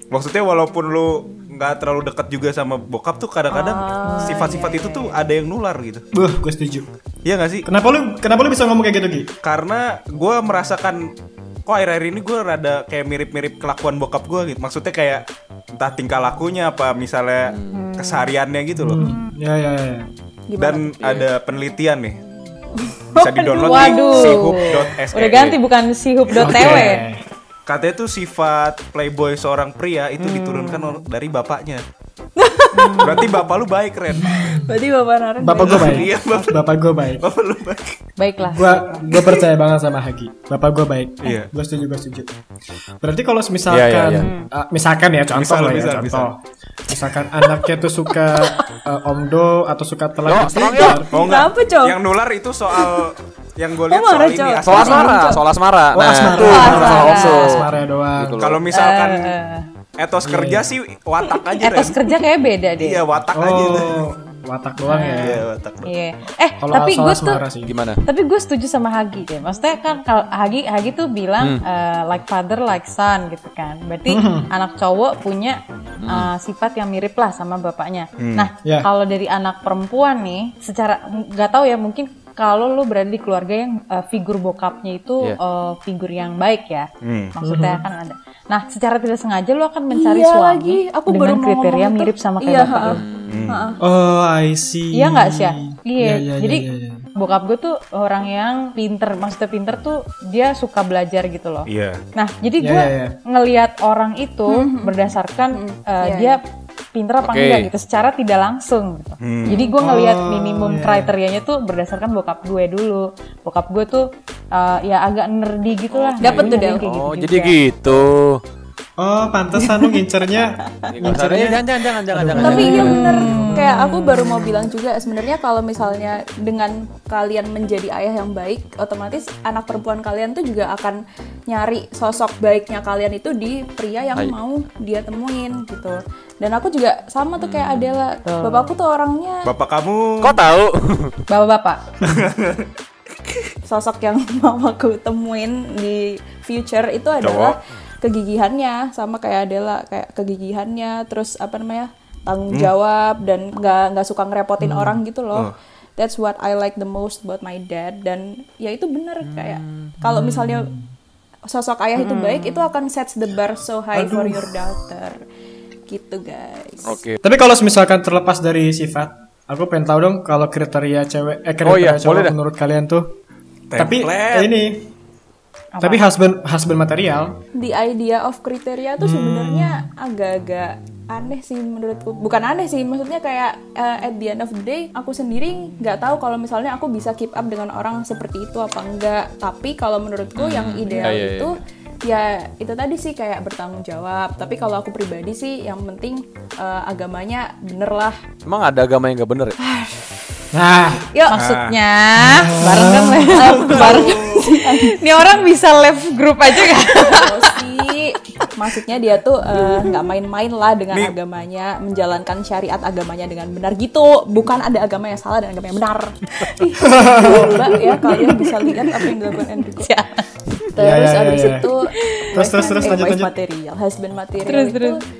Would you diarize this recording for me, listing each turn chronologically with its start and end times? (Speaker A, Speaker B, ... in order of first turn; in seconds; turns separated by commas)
Speaker A: 0.1-6.0, Speaker B: 3.5-5.0, Speaker C: 4.0-5.0, Speaker D: 6.1-6.9, Speaker A: 7.2-7.7, Speaker D: 7.7-9.3, Speaker A: 9.4-11.1, Speaker A: 11.7-19.0, Speaker E: 17.4-17.9, Speaker C: 17.7-18.3, Speaker D: 18.8-20.1, Speaker C: 19.0-19.2, Speaker B: 20.5-21.0, Speaker A: 20.6-22.2, Speaker E: 21.0-21.3, Speaker B: 22.9-24.5, Speaker A: 23.1-25.6, Speaker C: 23.5-27.1, Speaker D: 26.4-27.2, Speaker A: 26.4-26.8, Speaker A: 27.7-31.8, Speaker C: 30.2-31.0, Speaker B: 32.4-33.4, Speaker C: 32.7-33.4, Speaker A: 33.0-34.6, Speaker D: 34.1-34.7, Speaker B: 34.5-36.2, Speaker D: 35.4-37.3, Speaker A: 35.6-36.6, Speaker A: 37.2-38.0, Speaker C: 38.2-39.0, Speaker D: 38.4-42.3, Speaker A: 41.2-41.5, Speaker D: 43.0-51.1, Speaker E: 43.7-44.3, Speaker C: 44.2-44.5, Speaker A: 45.3-46.3, Speaker E: 50.2-51.0, Speaker B: 51.0-52.0, Speaker A: 51.1-55.2, Speaker B: 52.7-53.1, Speaker B: 53.9-55.5, Speaker E: 54.6-58.7, Speaker D: 55.9-58.4, Speaker C: 56.4-57.6, Speaker B: 56.5-57.2, Speaker A: 58.4-59.4, Speaker C: 58.7-59.7, Speaker A: 60.0-62.0, Speaker D: 60.2-60.7, Speaker C: 61.6-63.0, Speaker A: 62.8-64.0, Speaker D: 63.3-65.5, Speaker C: 64.9-67.4, Speaker A: 65.2-65.9, Speaker D: 66.6-67.7, Speaker E: 67.7-68.0, Speaker C: 68.0-93.0, Speaker D: 74.1-74.5, Speaker E: 76.0-76.3, Speaker A: 78.2-78.5, Speaker D: 78.6-78.9, Speaker A: 87.0-87.3, Speaker D: 87.4-87.8, Speaker B: 89.9-93.8, Speaker E: 92.7-93.5, Speaker A: 93.3-93.6, Speaker D: 93.8-97.1, Speaker C: 94.9-106.4, Speaker A: 101.7-102.0, Speaker D: 102.6-103.2, Speaker B: 104.5-105.0, Speaker B: 105.5-106.4, Speaker C: 106.9-117.6, Speaker E: 107.2-107.7, Speaker A: 109.2-109.7, Speaker D: 109.8-111.1, Speaker E: 115.9-118.4, Speaker B: 116.2-116.8, Speaker D: 119.0-123.7, Speaker E: 120.9-123.2, Speaker B: 122.4-139.5, Speaker C: 122.5-124.7, Speaker E: 137.4-138.0, Speaker C: 138.2-138.8, Speaker A: 139.4-140.4, Speaker E: 140.2-141.2, Speaker C: 141.3-142.0, Speaker A: 142.0-142.7, Speaker B: 143.7-160.7, Speaker A: 147.2-147.6, Speaker D: 154.6-155.0, Speaker E: 159.2-159.9, Speaker D: 160.0-160.9, Speaker B: 161.5-165.2, Speaker C: 162.0-162.7, Speaker D: 163.9-164.5, Speaker B: 165.9-167.0, Speaker E: 166.8-167.2, Speaker D: 167.2-173.1, Speaker E: 171.7-172.3, Speaker A: 173.7-174.5, Speaker D: 173.8-174.9, Speaker C: 175.7-176.0, Speaker D: 175.8-177.4, Speaker B: 177.6-198.2, Speaker D: 179.0-179.9, Speaker E: 190.4-191.6, Speaker E: 198.4-199.6, Speaker B: 199.6-200.0, Speaker D: 200.5-201.1, Speaker B: 201.1-201.4, Speaker C: 201.3-207.9, Speaker A: 201.3-201.8, Speaker D: 202.2-203.5, Speaker A: 203.3-204.5, Speaker B: 203.3-205.0, Speaker B: 206.9-219.9, Speaker C: 209.6-209.9, Speaker D: 216.8-218.0, Speaker C: 217.4-218.9, Speaker C: 219.7-220.3, Speaker B: 220.7-225.0, Speaker D: 220.8-221.7, Speaker C: 221.9-223.0, Speaker D: 222.3-223.3, Speaker C: 224.4-225.0